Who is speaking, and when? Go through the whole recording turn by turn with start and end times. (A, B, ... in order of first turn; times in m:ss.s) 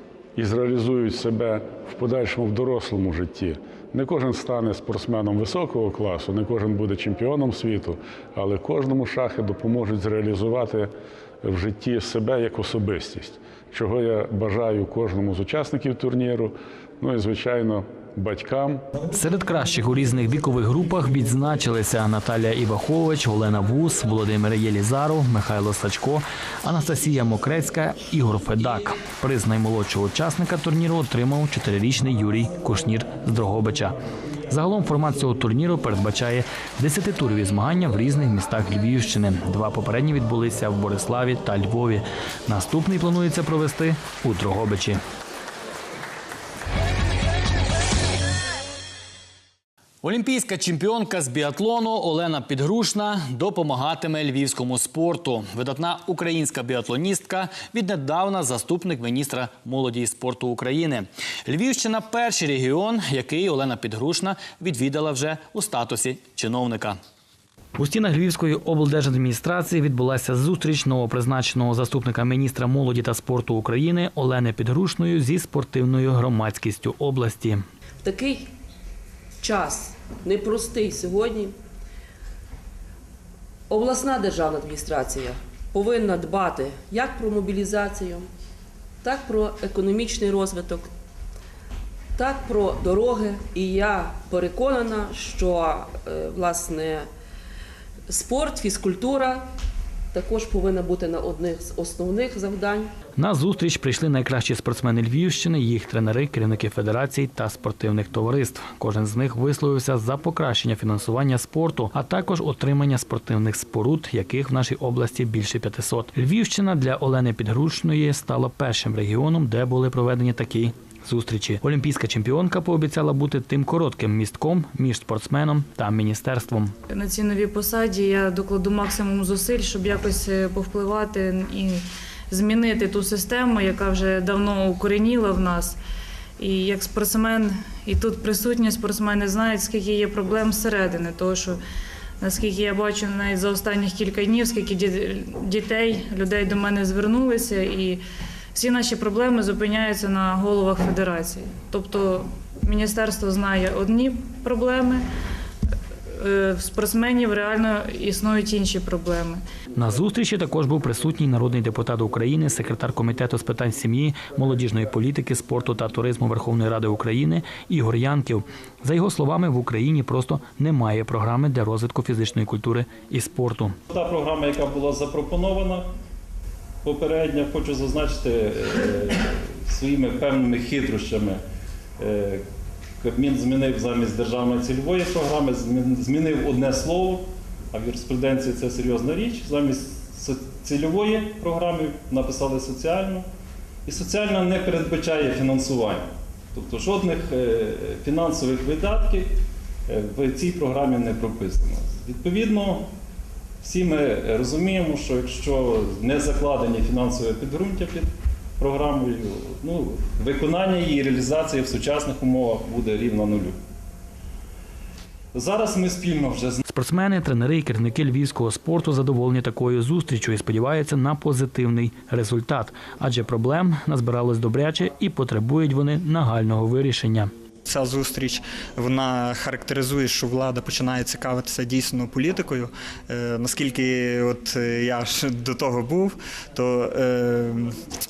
0:00.4-0:18.8 A
0:19.1-0:34.0 B
0:34.5-0:45.0 B
0:50.0-1:07.0 B
1:07.8-1:17.6 B
1:18.0-1:18.5 C
1:19.4-1:21.6 C
1:23.7-1:28.3 C
1:29.0-1:30.9 C
1:32.2-1:37.1 C
1:38.1-1:39.5 C
1:40.1-1:42.9 C
1:43.2-2:06.8 B
2:06.9-2:15.8 D
2:16.4-2:21.6 D
2:22.2-2:28.0 D
2:28.5-2:35.0 D
2:36.1-2:39.4 D
2:39.8-2:53.8 B
2:53.9-2:55.9 E
2:56.8-3:01.4 E
3:02.0-3:02.4 E
3:03.0-3:13.3 E
3:13.9-3:19.4 E
3:19.9-3:22.9 E
3:23.6-3:33.6 E
3:35.3-3:36.6 E
3:36.6-3:47.3 B
3:47.7-3:57.8 F